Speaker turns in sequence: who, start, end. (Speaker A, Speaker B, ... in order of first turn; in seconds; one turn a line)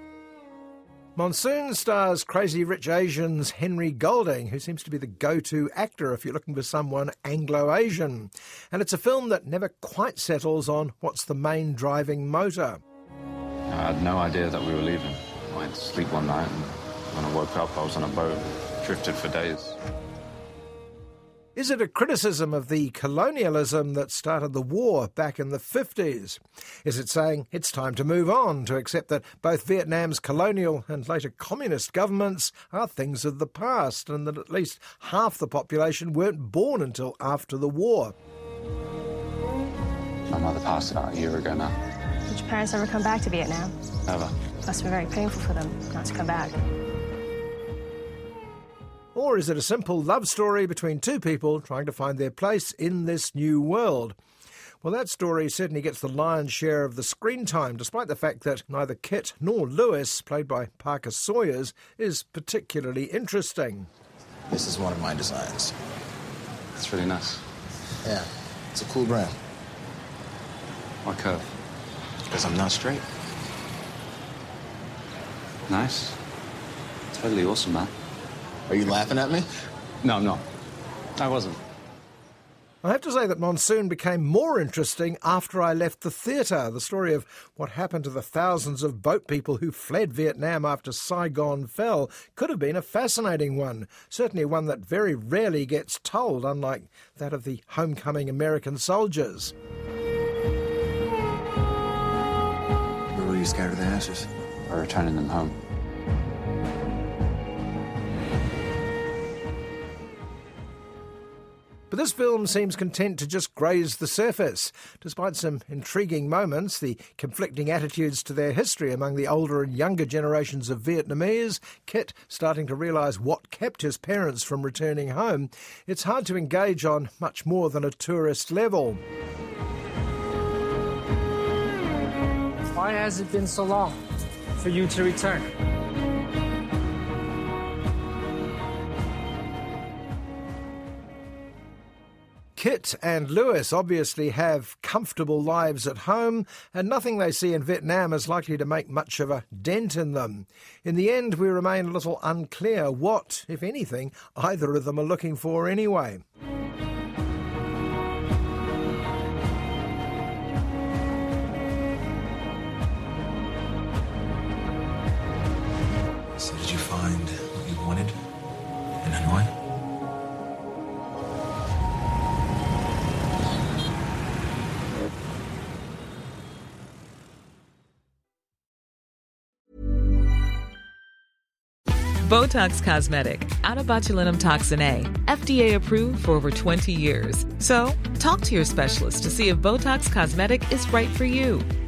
Speaker A: 1.1-12.8
Speaker B: 13.7-19.8
Speaker A: 21.5-38.1
Speaker B: 40.3-41.8
Speaker C: 42.3-43.7
Speaker B: 44.1-44.3
Speaker C: 44.6-46.5
Speaker A: 49.1-54.1
Speaker A: 54.8-63.9
Speaker D: 64.5-65.7
Speaker B: 66.8-67.4
Speaker D: 68.0-69.3
Speaker B: 71.0-71.5
Speaker D: 72.3-73.0
Speaker B: 75.7-76.2
Speaker B: 77.1-77.9
Speaker D: 78.7-79.5
Speaker B: 80.0-80.5
Speaker B: 81.2-81.6
Speaker A: 82.8-99.5
Speaker D: 103.1-104.3
Speaker B: 104.7-105.6
Speaker A: 111.9-129.0
Speaker E: 132.7-133.9
Speaker E: 134.6-135.4
Speaker A: 142.6-156.2
Speaker D: 166.3-168.2
Speaker D: 169.0-169.5
Speaker F: 182.2-191.7